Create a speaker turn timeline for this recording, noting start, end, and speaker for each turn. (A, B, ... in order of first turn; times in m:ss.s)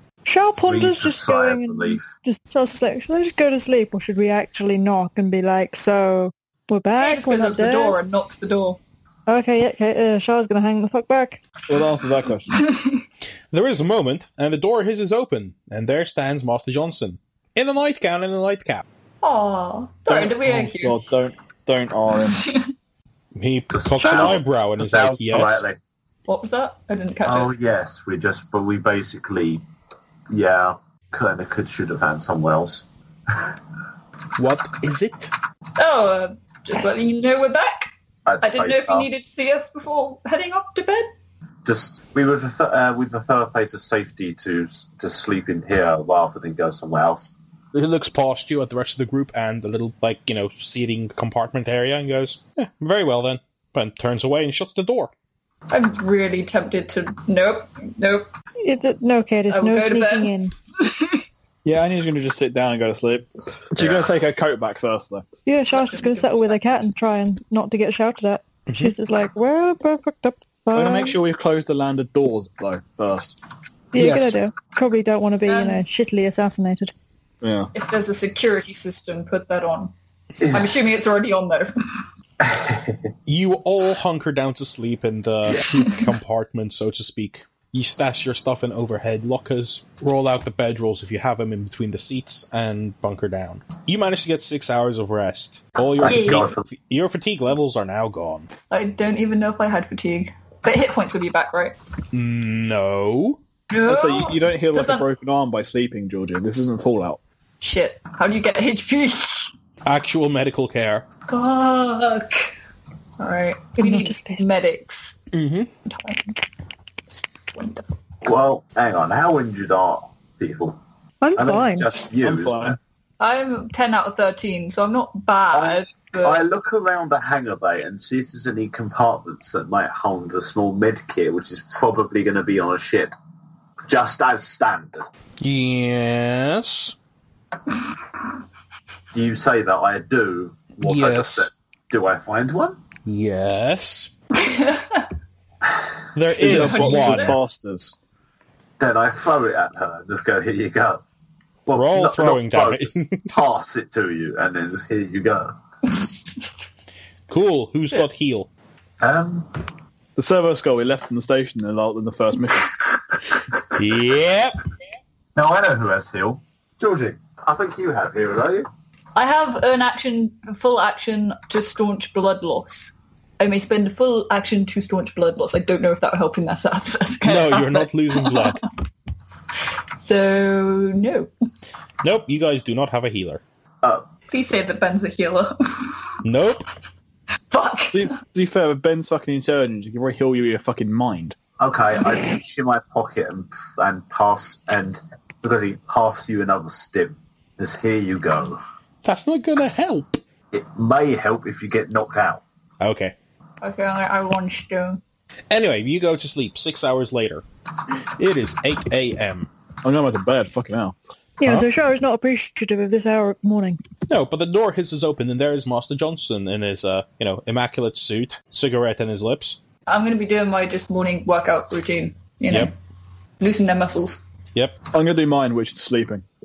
0:00.2-0:08.0 A
0:00.5-0:02.1 B
0:07.0-0:08.8 C
0:09.3-0:11.4 A
0:11.7-0:12.6 D
0:12.5-0:13.0 C
0:13.5-0:18.8 E
0:19.2-0:21.0 C
0:20.1-0:22.4 D
0:22.3-0:22.7 C
0:23.3-0:25.6 E
0:23.7-0:25.8 B
0:26.3-0:27.5 C
0:27.2-0:29.6 B
0:30.3-0:33.6 B
0:34.4-0:35.3 E
0:35.8-0:41.1 C
0:38.2-0:39.1 B
0:41.6-0:47.3 B
0:47.7-0:55.1 E
0:55.7-0:58.3 C
0:58.6-1:00.5 A
0:59.5-1:01.2 C
1:01.6-1:05.2 D
1:03.8-1:04.1 B
1:05.4-1:11.2 A
1:05.7-1:06.8 C
1:10.7-1:13.4 D
1:13.9-1:16.9 A
1:14.0-1:14.4 E
1:15.4-1:15.8 C
1:17.4-1:17.7 D
1:17.7-1:19.9 C
1:20.5-1:22.0 C
1:22.4-1:23.1 B
1:23.3-1:38.5 E
1:25.6-1:26.0 C
1:36.0-1:36.6 B
1:36.0-1:36.5 C
1:38.7-1:41.8 C
1:42.1-1:43.4 E
1:43.7-1:45.1 C
1:43.8-1:47.2 D
1:47.6-1:49.5 C
1:49.8-1:51.1 E
1:51.3-1:52.5 C
1:53.2-1:55.2 C
1:53.8-1:54.4 A
1:55.3-1:55.7 E
1:55.9-1:56.5 C
1:57.1-1:57.9 C
1:58.2-2:00.8 B
2:01.2-2:01.9 A
2:01.4-2:02.8 B
2:02.2-2:02.8 D
2:03.2-2:06.4 C
2:05.5-2:13.1 B
2:13.9-2:15.1 B
2:15.4-2:17.0 E
2:19.1-2:22.8 B
2:20.8-2:21.5 E
2:23.0-2:24.1 E
2:24.3-2:25.1 C
2:26.1-2:27.4 E
2:26.3-2:27.9 D
2:26.4-2:27.4 C
2:28.8-2:31.0 B
2:31.6-2:35.6 B
2:31.7-2:33.4 E
2:37.3-2:38.5 E
2:39.0-2:39.6 B
2:40.2-2:42.7 D
2:43.7-2:44.6 E
2:45.4-2:48.7 B
2:49.1-2:58.6 C
2:57.2-2:58.6 E
3:00.0-3:01.3 C
3:02.0-3:03.4 E
3:03.8-3:04.1 B
3:04.3-3:06.2 C
3:06.2-3:06.7 E
3:07.5-3:08.1 C
3:07.9-3:11.4 D
3:11.6-3:18.6 B
3:19.0-3:20.2 E
3:20.5-3:22.4 B
3:22.8-3:23.2 E
3:23.6-3:25.0 C
3:25.5-3:27.4 E
3:28.2-3:29.5 E
3:29.8-3:31.0 D
3:31.4-3:33.8 A
3:34.1-3:39.6 E
3:39.9-3:42.7 C
3:43.4-3:44.2 C
3:44.9-3:46.2 D